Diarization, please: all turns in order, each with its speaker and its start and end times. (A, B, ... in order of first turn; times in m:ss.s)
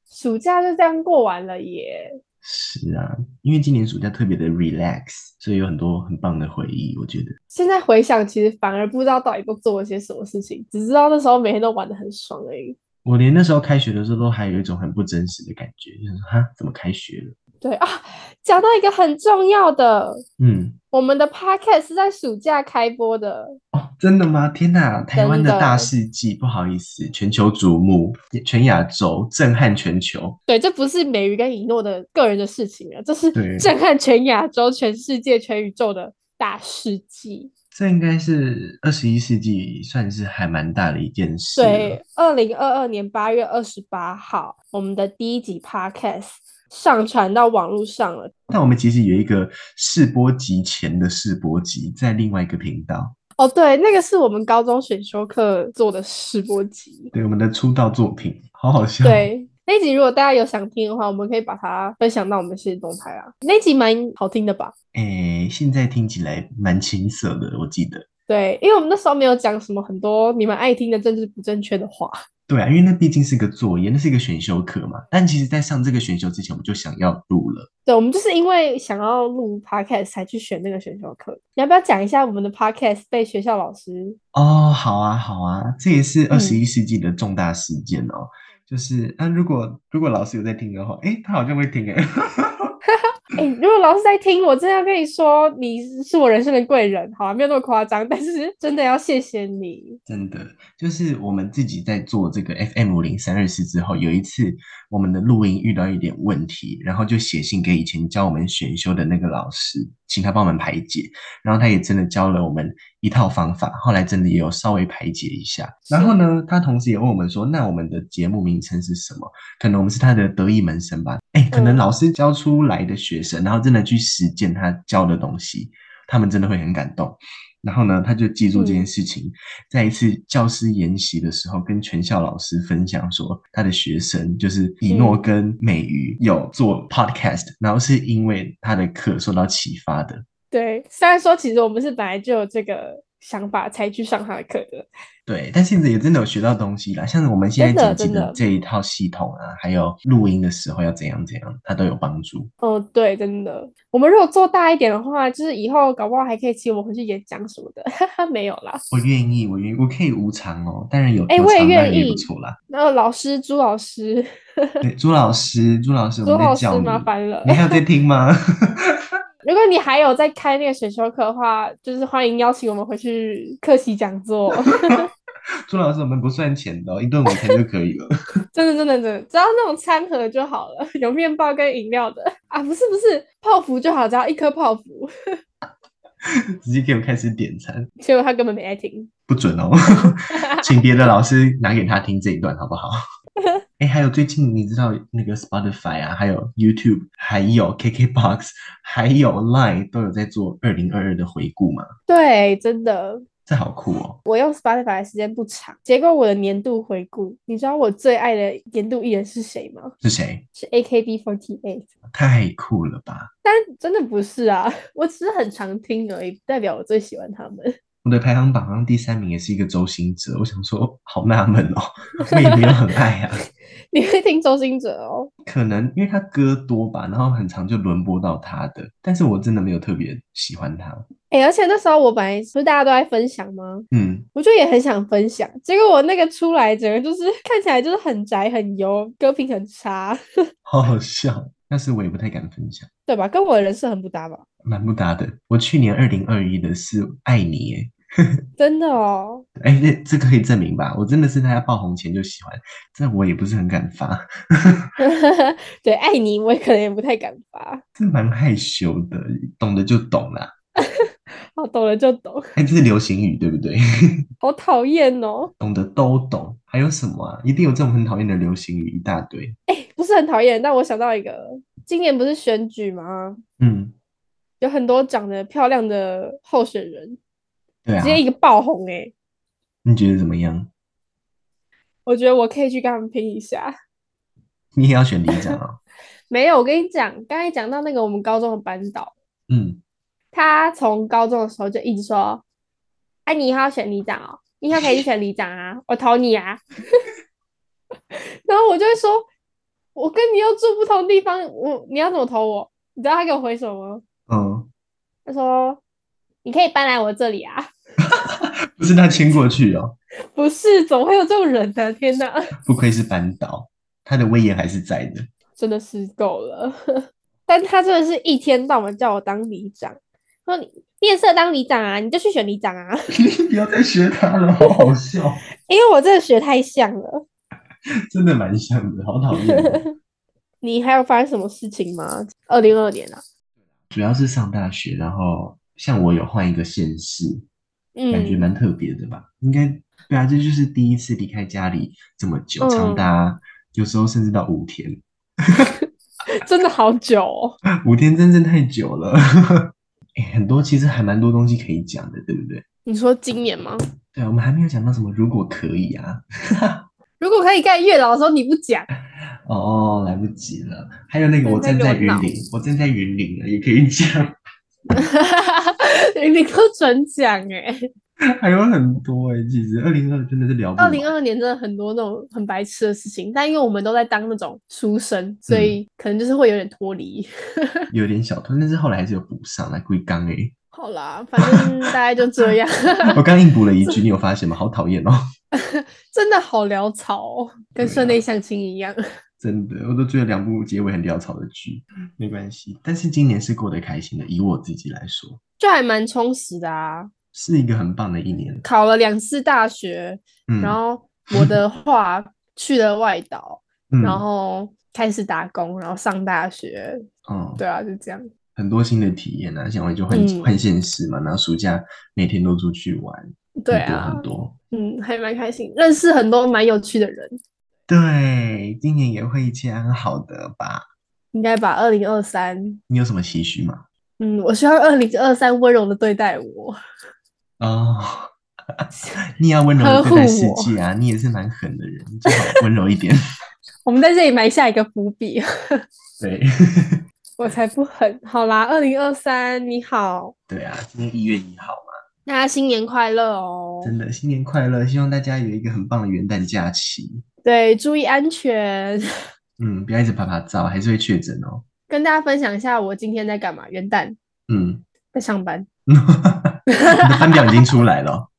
0:00.1-0:02.2 A
0:02.4-0:07.4 B
0:07.5-0:12.8 A
0:13.0-0:17.4 B
0:17.6-0:20.2 A
0:20.4-0:20.8 B
0:20.9-0:23.6 A
0:23.7-0:30.4 B
0:25.2-0:25.9 A
0:30.5-0:37.5 A
0:33.3-0:33.7 B
0:37.7-0:42.0 B
0:41.6-0:48.3 A
0:48.5-0:53.1 B
0:53.4-0:57.1 A
0:57.1-0:59.3 B
0:59.0-1:04.7 A
1:04.9-1:08.0 B
1:08.3-1:12.2 A
1:12.5-1:17.7 B
1:17.8-1:24.2 A
1:24.3-1:32.8 B
1:26.3-1:26.6 A
1:33.4-1:40.0 A
1:40.1-2:20.2 B
1:55.9-1:56.2 A
2:01.5-2:01.9 A
2:08.5-2:08.9 A
2:14.9-2:15.3 A
2:20.5-2:24.9 A
2:25.2-2:32.5 B
2:27.6-2:28.4 A
2:32.6-2:38.8 A
2:38.9-2:42.6 B
2:41.3-2:44.8 A
2:44.8-2:49.0 B
2:46.2-2:47.8 A
2:49.4-2:55.1 A
2:55.7-2:58.1 B
2:58.5-3:05.1 A
3:06.6-3:07.9 B
3:08.0-3:09.1 A
3:09.3-3:13.0 B
3:10.4-3:10.8 A
3:13.8-3:21.9 B
3:22.1-3:23.2 A
3:23.5-3:24.2 B
3:24.2-3:29.9 A
3:30.0-3:30.4 B
3:30.6-3:31.9 A
3:32.1-3:33.3 B
3:33.4-3:37.8 A
3:38.0-3:43.4 B
3:42.3-3:42.7 A
3:43.9-3:45.3 A
3:45.4-3:51.1 B
3:51.3-4:00.2 A
3:53.9-3:54.3 B
4:00.6-4:02.9 B
4:03.1-4:04.4 A
4:04.6-4:08.4 B
4:08.6-4:09.4 A
4:09.6-4:14.9 B
4:15.0-4:17.8 A
4:18.0-4:20.5 B
4:20.8-4:22.6 A
4:22.6-4:24.2 B
4:24.4-4:25.5 A
4:25.6-4:29.6 B
4:29.7-4:33.4 A
4:33.6-4:33.9 B
4:34.6-4:37.2 A
4:37.8-4:38.2 B
4:38.0-4:39.1 A
4:39.8-4:40.7 B
4:42.0-4:43.7 A
4:44.7-4:45.8 B
4:46.3-4:49.1 A
4:49.5-4:49.8 B
4:50.3-4:52.4 A
4:53.2-4:57.0 A
4:58.1-4:59.2 A
4:59.9-5:04.0 A
5:04.3-5:04.7 B
5:05.2-5:05.8 A
5:06.4-5:07.7 A
5:08.0-5:10.0 B
5:10.3-5:12.5 A
5:12.6-5:15.3 B
5:15.6-5:23.0 A
5:23.1-5:25.4 B
5:25.6-5:27.2 A
5:28.1-5:29.8 B
5:29.4-5:29.9 A
5:30.6-5:33.2 A
5:33.9-5:37.4 B
5:38.0-5:38.4 A
5:38.1-5:45.0 B
5:42.6-5:43.1 A
5:46.3-5:47.6 A
5:47.8-5:52.6 B
5:52.8-5:53.8 A
5:54.1-5:56.8 B
5:57.2-5:58.9 A
5:59.4-6:04.4 B
6:01.4-6:02.3 A
6:04.9-6:07.8 A
6:08.4-6:11.1 B
6:10.8-6:17.8 A
6:15.5-6:15.8 B
6:17.9-6:20.5 B
6:20.7-6:23.2 A
6:21.4-6:21.9 B
6:23.0-6:25.2 B
6:25.5-6:29.0 A
6:27.8-6:28.2 B
6:29.4-6:35.4 B
6:35.6-6:37.1 A
6:37.3-6:38.6 B
6:38.6-6:47.0 A
6:40.5-6:40.8 B
6:41.3-6:41.6 B
6:43.9-6:44.2 B
6:47.2-6:47.6 B
6:47.6-6:48.3 A
6:48.6-6:54.5 B
6:50.1-6:50.6 A
6:53.6-6:57.4 A
6:57.9-7:00.8 B
7:01.3-7:02.8 A
7:02.9-7:03.8 B
7:04.2-7:06.8 A
7:07.6-7:13.2 B
7:09.8-7:10.7 A
7:12.3-7:12.6 A
7:13.8-7:15.8 A
7:16.2-7:17.0 B
7:17.4-7:20.3 A
7:20.5-7:21.9 B
7:22.2-7:23.9 A
7:23.8-7:27.2 B
7:27.4-7:29.0 A
7:29.6-7:31.6 B
7:31.9-7:34.2 A
7:34.5-7:34.8 B
7:35.1-7:35.7 A
7:35.9-7:38.3 B
7:36.7-7:37.7 A